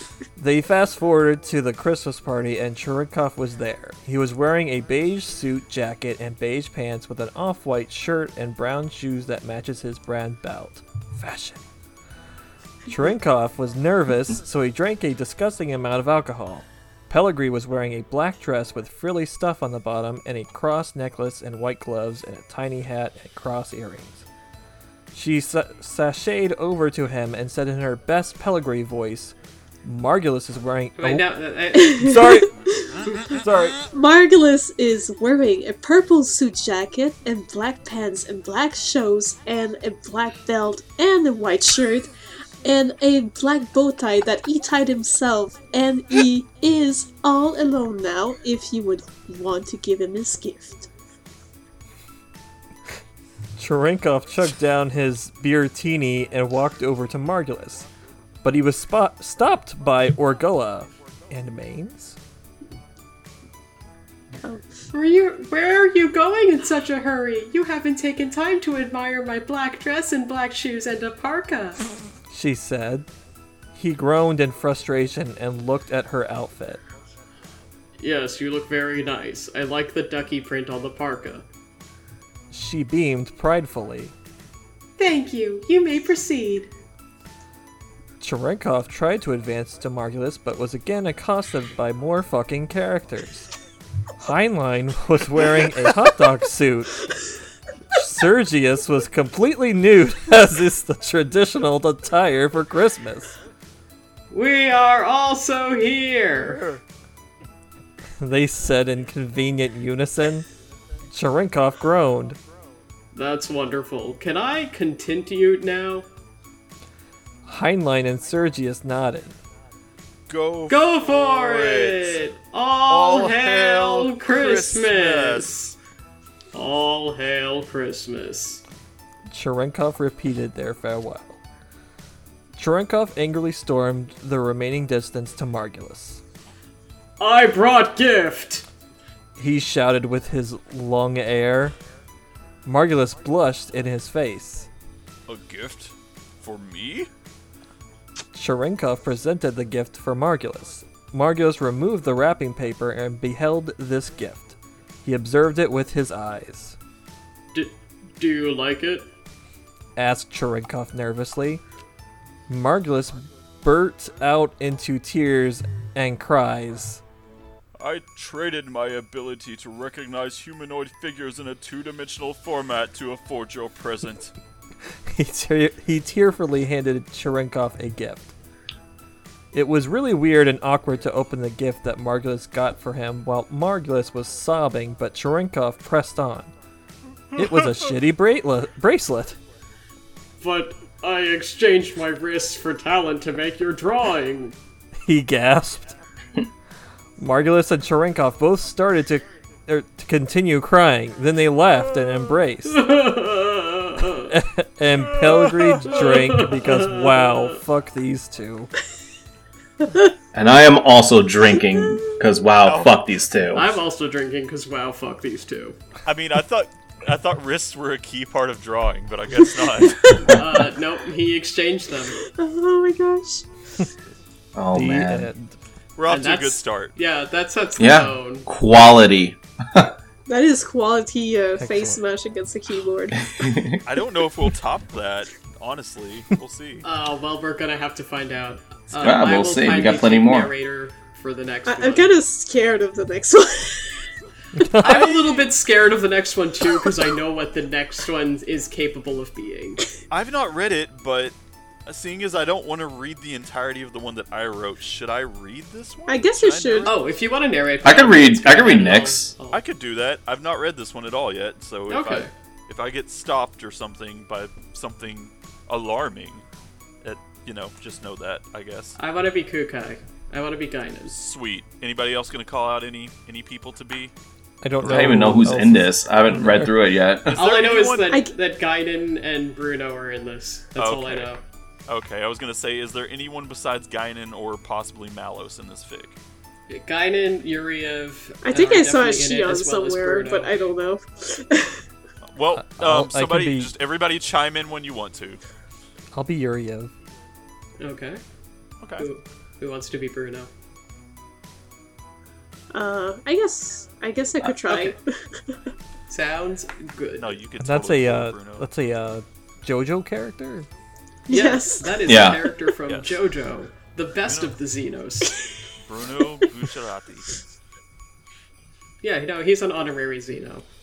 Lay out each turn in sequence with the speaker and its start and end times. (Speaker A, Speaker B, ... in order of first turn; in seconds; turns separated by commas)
Speaker A: 0.3-11.6, Speaker A: 12.9-24.2, Speaker A: 25.1-31.3, Speaker B: 31.0-32.4, Speaker C: 31.7-33.0, Speaker A: 31.9-32.5, Speaker A: 33.3-33.8, Speaker C: 33.9-42.1, Speaker C: 42.6-50.9, Speaker A: 53.6-57.9, Speaker A: 58.4-62.2, Speaker C: 64.4-64.7, Speaker B: 64.9-71.8, Speaker A: 72.3-73.1, Speaker A: 73.7-76.8, Speaker B: 78.0-81.4, Speaker A: 82.5-84.1, Speaker B: 85.0-86.7, Speaker A: 88.2-93.5, Speaker A: 94.2-97.0, Speaker A: 97.9-103.4, Speaker B: 104.3-106.6, Speaker A: 108.2-110.5, Speaker A: 111.1-112.4, Speaker B: 113.1-116.0, Speaker A: 117.5-119.4, Speaker D: 120.3-122.2, Speaker B: 120.7-125.6, Speaker D: 122.9-125.7, Speaker B: 126.5-128.6, Speaker A: 129.3-131.4, Speaker A: 132.6-136.2, Speaker B: 137.2-138.7, Speaker A: 139.4-141.8, Speaker A: 142.6-144.7, Speaker D: 145.3-147.1, Speaker A: 148.3-156.8, Speaker B: 157.5-159.1, Speaker A: 159.9-161.6, Speaker A: 162.5-167.0, Speaker D: 167.8-174.3, Speaker A: 175.1-178.3, Speaker A: 179.5-186.5, Speaker D: 187.3-187.9, Speaker A: 187.3-189.4, Speaker B: 190.4-194.6, Speaker A: 195.0-195.9, Speaker A: 197.2-202.9, Speaker B: 202.7-204.3, Speaker A: 204.3-208.7, Speaker B: 205.8-207.5, Speaker E: 210.3-213.8, Speaker D: 212.6-213.1, Speaker B: 213.5-215.8, Speaker D: 216.0-220.2, Speaker B: 220.2-222.2, Speaker E: 220.3-220.7, Speaker C: 222.2-223.4, Speaker E: 224.6-225.3, Speaker A: 224.7-225.6, Speaker D: 225.9-226.9, Speaker B: 226.1-228.5, Speaker E: 227.8-229.9, Speaker C: 230.3-233.4, Speaker A: 231.6-232.0, Speaker E: 233.3-233.8, Speaker D: 233.8-236.8, Speaker B: 236.8-242.1, Speaker E: 239.0-240.5, Speaker C: 241.7-244.1, Speaker A: 244.5-245.1, Speaker B: 244.8-249.8, Speaker D: 244.9-245.4, Speaker D: 250.1-251.3, Speaker D: 251.8-257.2, Speaker C: 256.1-256.9, Speaker B: 256.8-259.6, Speaker E: 257.8-259.3, Speaker D: 259.5-266.4, Speaker B: 261.9-262.3, Speaker D: 267.0-269.0, Speaker B: 269.0-271.1, Speaker D: 271.1-274.1, Speaker A: 274.6-276.7, Speaker E: 274.8-277.4, Speaker B: 277.3-281.4, Speaker D: 277.3-278.2, Speaker D: 280.8-281.3, Speaker D: 281.9-286.2, Speaker B: 286.7-290.5, Speaker C: 288.4-291.8, Speaker D: 292.2-295.4, Speaker A: 292.6-293.7, Speaker A: 296.1-296.9, Speaker B: 297.8-298.2, Speaker B: 299.0-300.5, Speaker C: 302.7-305.6, Speaker B: 304.6-304.9, Speaker B: 306.1-307.3, Speaker D: 307.1-308.7, Speaker A: 307.6-310.7, Speaker C: 311.3-312.4, Speaker B: 311.3-315.4, Speaker E: 312.0-312.4, Speaker D: 312.9-313.2, Speaker D: 314.2-314.6, Speaker D: 315.8-317.3, Speaker B: 319.0-320.6